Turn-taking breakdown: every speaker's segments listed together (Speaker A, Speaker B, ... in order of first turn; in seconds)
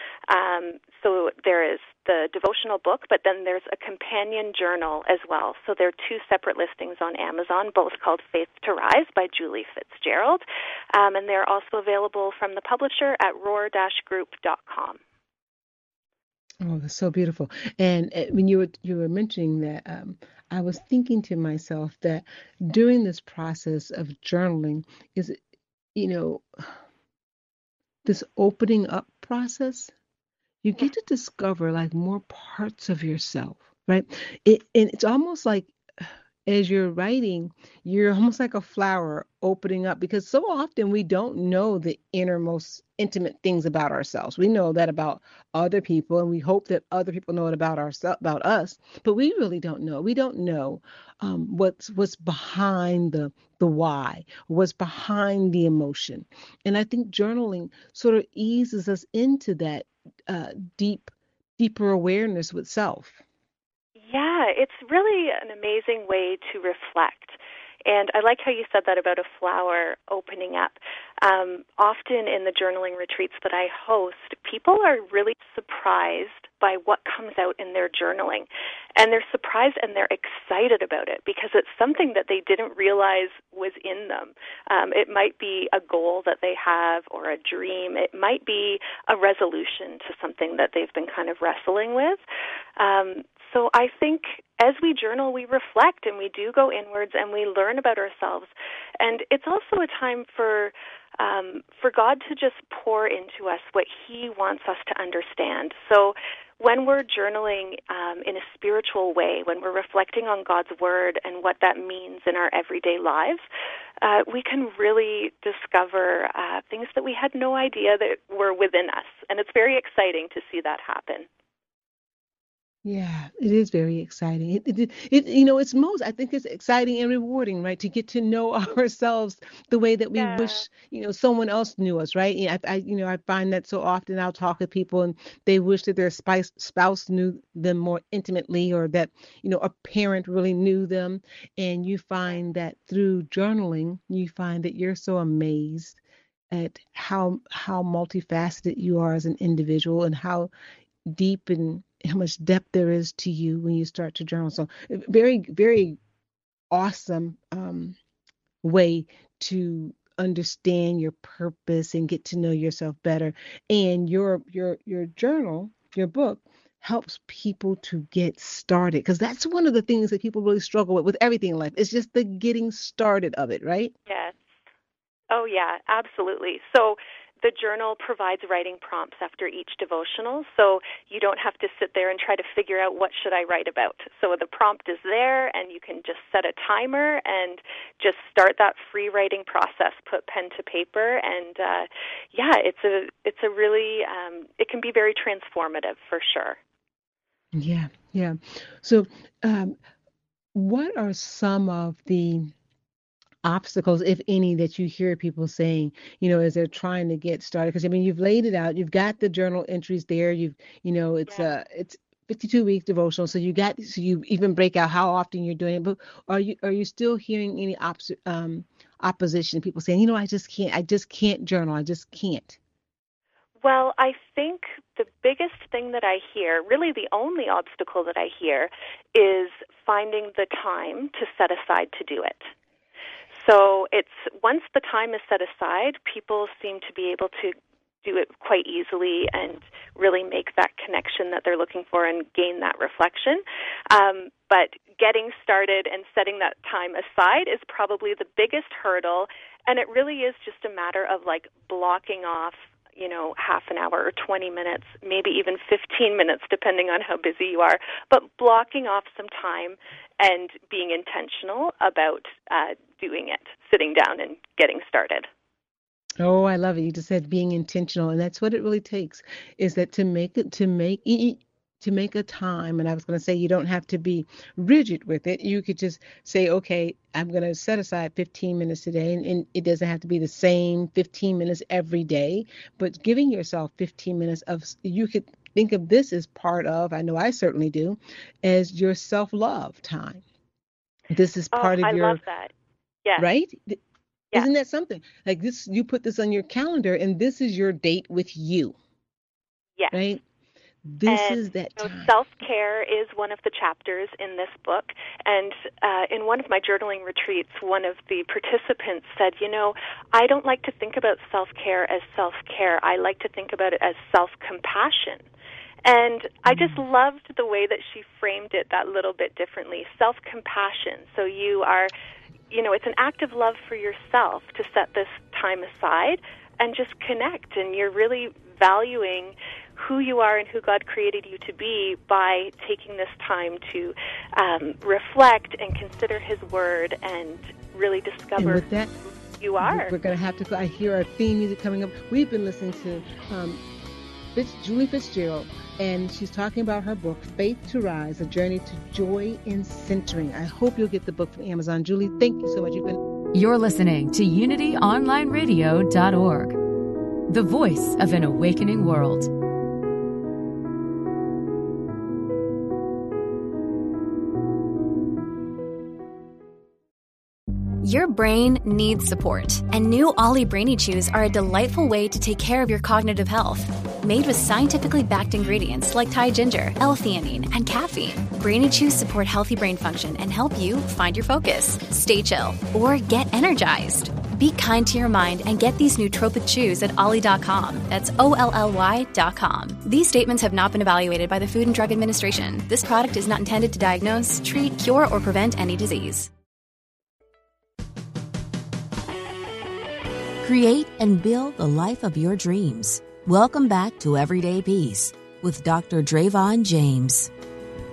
Speaker A: 0.3-10.4, 10.9-15.0, 64.0-92.2, 92.8-113.4, 114.0-121.3, 130.2-130.7, 174.1-174.3, 175.3-196.6, 223.6-232.5, 233.4-265.3, 291.5-292.5, 301.1-315.2, 315.9-321.9, 322.5-338.6, 339.4-339.9
Speaker B: 16.6-25.4, 25.9-26.7, 28.1-29.9, 30.6-63.2, 122.8-146.0, 146.5-150.5, 151.1-156.0, 156.7-158.0, 158.6-173.9, 197.5-199.8, 200.5-202.5, 203.4-222.6, 266.2-290.2, 291.1-292.2, 293.2-293.8, 294.3-298.8, 299.9-300.2, 300.9-302.1, 338.4-338.9, 339.6-343.6, 344.4-353.0
Speaker C: 353.3-356.6, 357.3-359.3
Speaker D: 367.8-396.3
Speaker E: 400.4-407.3